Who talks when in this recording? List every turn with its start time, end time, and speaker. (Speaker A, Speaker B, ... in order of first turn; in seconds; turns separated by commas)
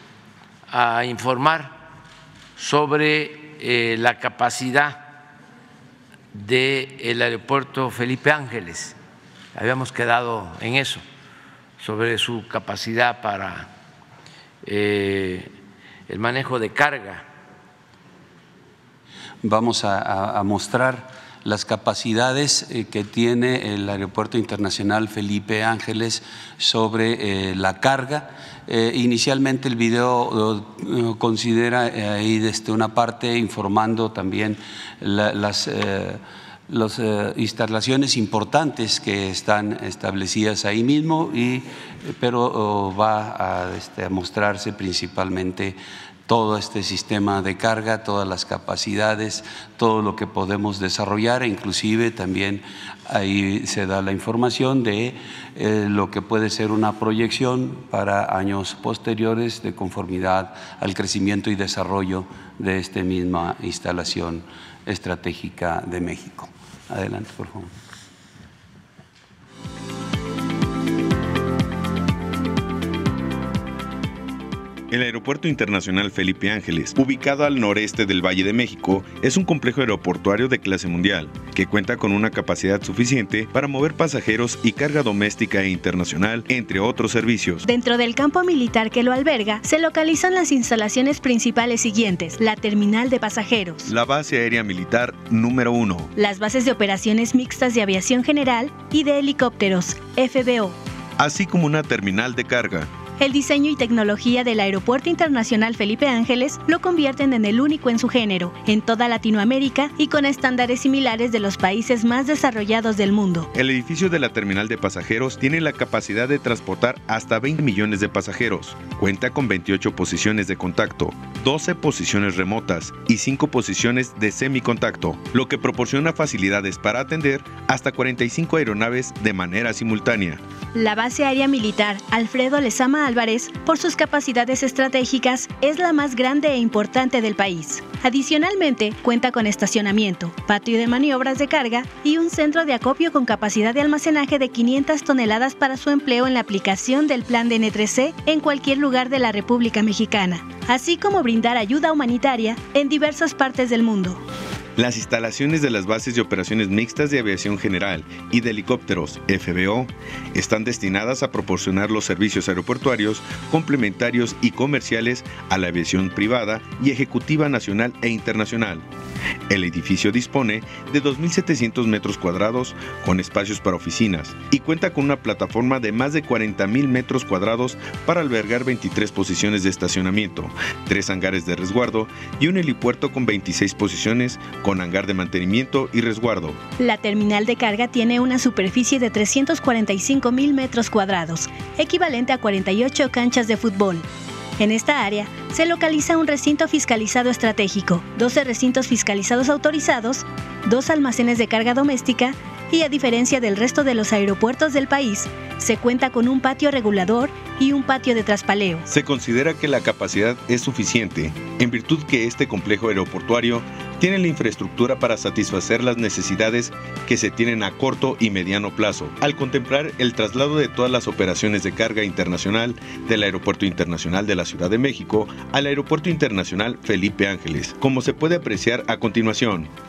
Speaker A: 0.7-1.7, Speaker A: 2.6-5.1, Speaker A: 6.3-9.0, Speaker A: 9.5-11.0, Speaker A: 11.8-13.7, Speaker A: 14.6-15.5, Speaker A: 16.1-17.2, Speaker B: 19.4-67.7, Speaker C: 74.9-87.6, Speaker D: 87.6-93.9, Speaker C: 93.9-96.1, Speaker D: 96.2-100.8, Speaker C: 101.2-102.9, Speaker D: 103.2-113.5, Speaker C: 113.5-130.4, Speaker D: 130.7-154.2, Speaker C: 154.8-168.8, Speaker C: 169.5-186.6, Speaker D: 186.8-194.1, Speaker D: 194.6-208.9, Speaker C: 208.9-229.7